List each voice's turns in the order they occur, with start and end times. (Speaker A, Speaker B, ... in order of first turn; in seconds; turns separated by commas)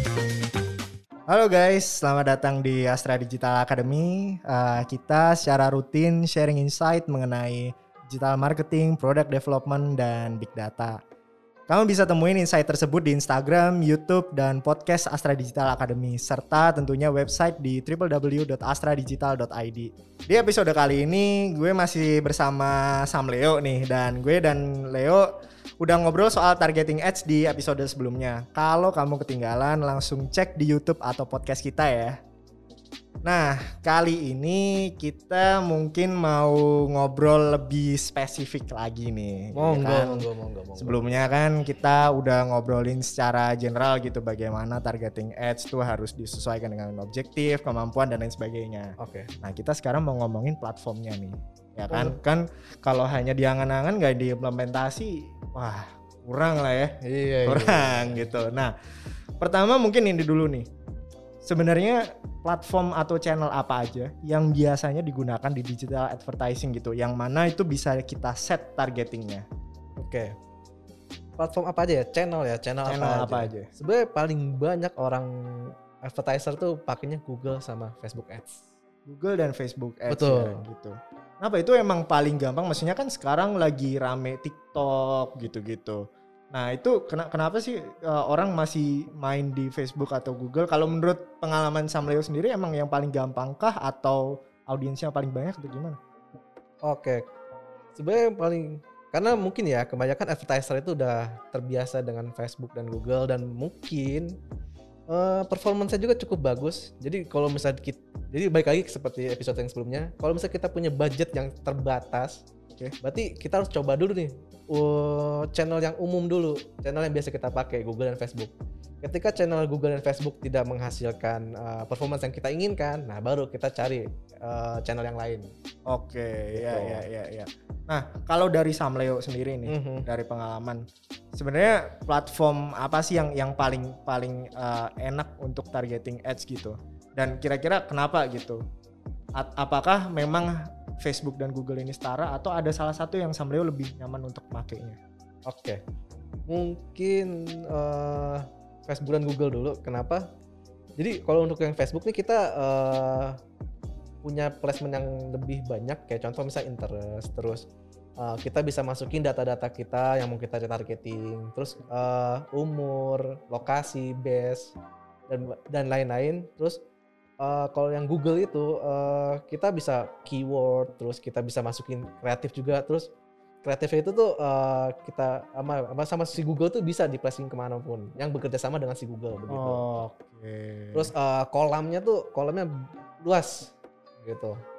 Speaker A: 1.3-11.0, Speaker A: 11.7-25.3, Speaker A: 25.8-32.1, Speaker A: 33.2-40.3, Speaker B: 39.5-41.0, Speaker A: 40.8-58.7, Speaker B: 49.0-49.3, Speaker B: 51.9-52.2, Speaker B: 57.0-58.3, Speaker A: 59.4-60.6, Speaker A: 61.4-69.4, Speaker B: 70.0-70.3, Speaker B: 71.4-78.6, Speaker A: 72.8-73.7, Speaker A: 79.0-96.0, Speaker B: 80.1-80.6, Speaker B: 96.8-97.2, Speaker B: 97.9-104.3, Speaker B: 105.1-112.4, Speaker B: 113.0-125.5, Speaker A: 125.9-130.8, Speaker B: 126.5-127.0, Speaker B: 129.7-130.1, Speaker A: 131.3-138.6, Speaker A: 139.4-145.0, Speaker B: 145.5-145.8, Speaker B: 146.5-150.2, Speaker B: 151.0-153.4, Speaker B: 154.2-157.7, Speaker B: 158.2-164.8, Speaker B: 165.3-166.8, Speaker B: 167.4-173.1, Speaker B: 173.6-179.8, Speaker A: 179.5-181.1, Speaker B: 180.9-184.6